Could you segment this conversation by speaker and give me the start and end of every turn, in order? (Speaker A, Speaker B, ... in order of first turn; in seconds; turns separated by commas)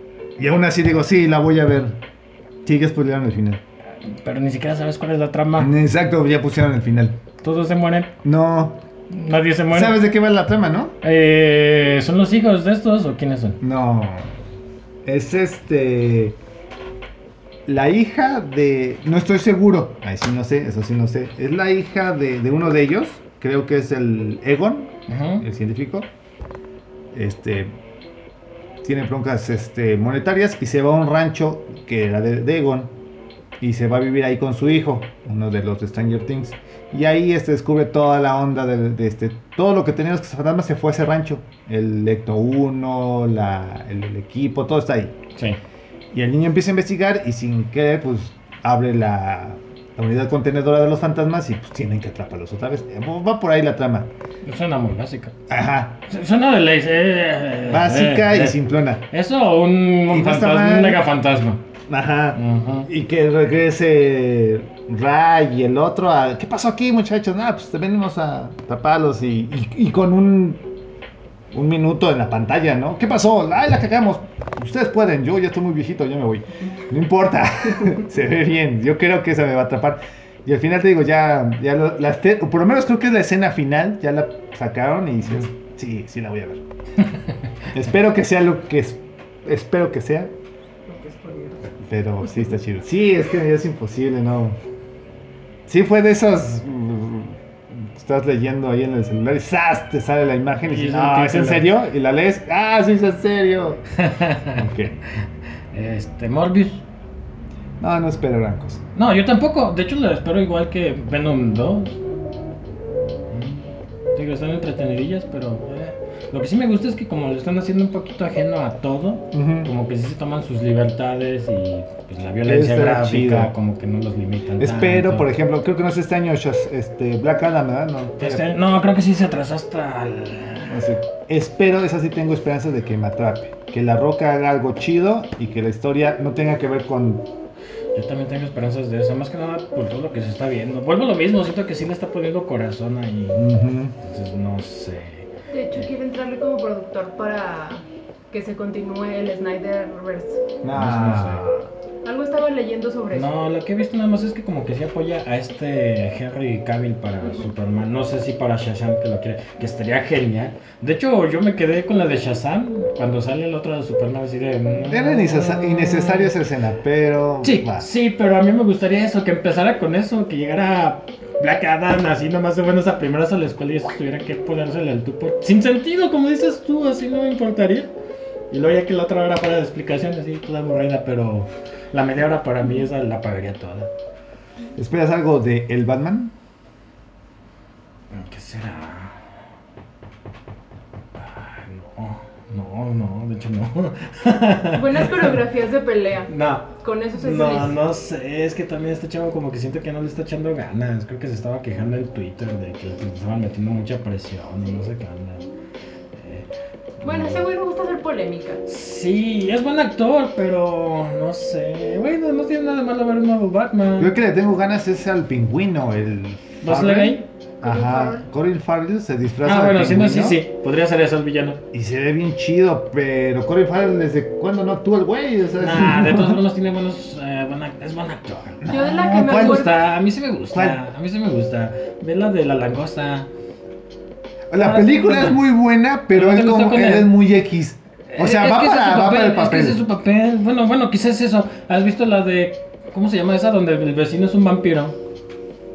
Speaker A: 0.4-2.0, Speaker A: 2.6-3.6, Speaker B: 4.0-5.7, Speaker A: 5.6-7.2, Speaker B: 7.4-8.1, Speaker A: 8.2-8.8, Speaker B: 9.1-10.0, Speaker A: 9.7-11.0, Speaker B: 11.0-13.6, Speaker A: 13.6-14.3, Speaker A: 15.1-16.4, Speaker A: 17.7-26.1, Speaker B: 25.1-25.4, Speaker A: 27.1-27.8, Speaker A: 28.8-32.9, Speaker A: 33.6-45.2, Speaker B: 45.4-45.6, Speaker A: 46.1-54.1, Speaker B: 54.5-55.4, Speaker A: 55.5-56.0, Speaker B: 56.1-58.6, Speaker A: 57.7-59.0, Speaker B: 59.1-61.6, Speaker A: 60.1-61.0, Speaker A: 61.9-70.7, Speaker B: 62.4-62.9, Speaker A: 71.5-86.6, Speaker B: 87.0-87.7, Speaker A: 87.7-90.3, Speaker C: 90.9-91.6, Speaker A: 91.8-94.6, Speaker A: 95.7-103.8, Speaker B: 100.7-101.7, Speaker B: 104.0-104.7, Speaker A: 104.5-105.0, Speaker B: 105.2-106.8, Speaker A: 107.8-108.8, Speaker B: 109.0-112.0, Speaker B: 113.3-125.3, Speaker A: 119.3-119.7, Speaker A: 122.5-123.5, Speaker A: 124.6-128.5, Speaker B: 128.2-130.8, Speaker A: 130.7-137.3, Speaker B: 137.9-143.5, Speaker A: 143.3-143.9, Speaker B: 144.0-145.9, Speaker C: 145.5-150.4, Speaker A: 150.6-151.7, Speaker B: 150.7-151.5, Speaker C: 152.0-153.3, Speaker B: 153.1-166.3, Speaker A: 164.9-167.9, Speaker B: 167.4-177.9, Speaker B: 178.5-183.9, Speaker A: 184.8-186.3, Speaker B: 188.1-189.2, Speaker B: 191.2-195.4, Speaker C: 194.7-197.8, Speaker B: 196.3-205.4, Speaker B: 206.1-206.5, Speaker B: 207.0-207.4, Speaker C: 207.0-208.6, Speaker B: 208.7-214.1, Speaker A: 214.0-220.4, Speaker B: 216.6-217.3, Speaker C: 217.6-218.2, Speaker B: 219.4-221.6, Speaker A: 221.7-226.4, Speaker B: 225.6-233.3, Speaker A: 228.6-229.7, Speaker C: 228.7-229.8, Speaker A: 230.5-230.8, Speaker A: 234.5-239.8, Speaker B: 234.6-235.4, Speaker B: 236.1-237.2, Speaker B: 238.1-245.0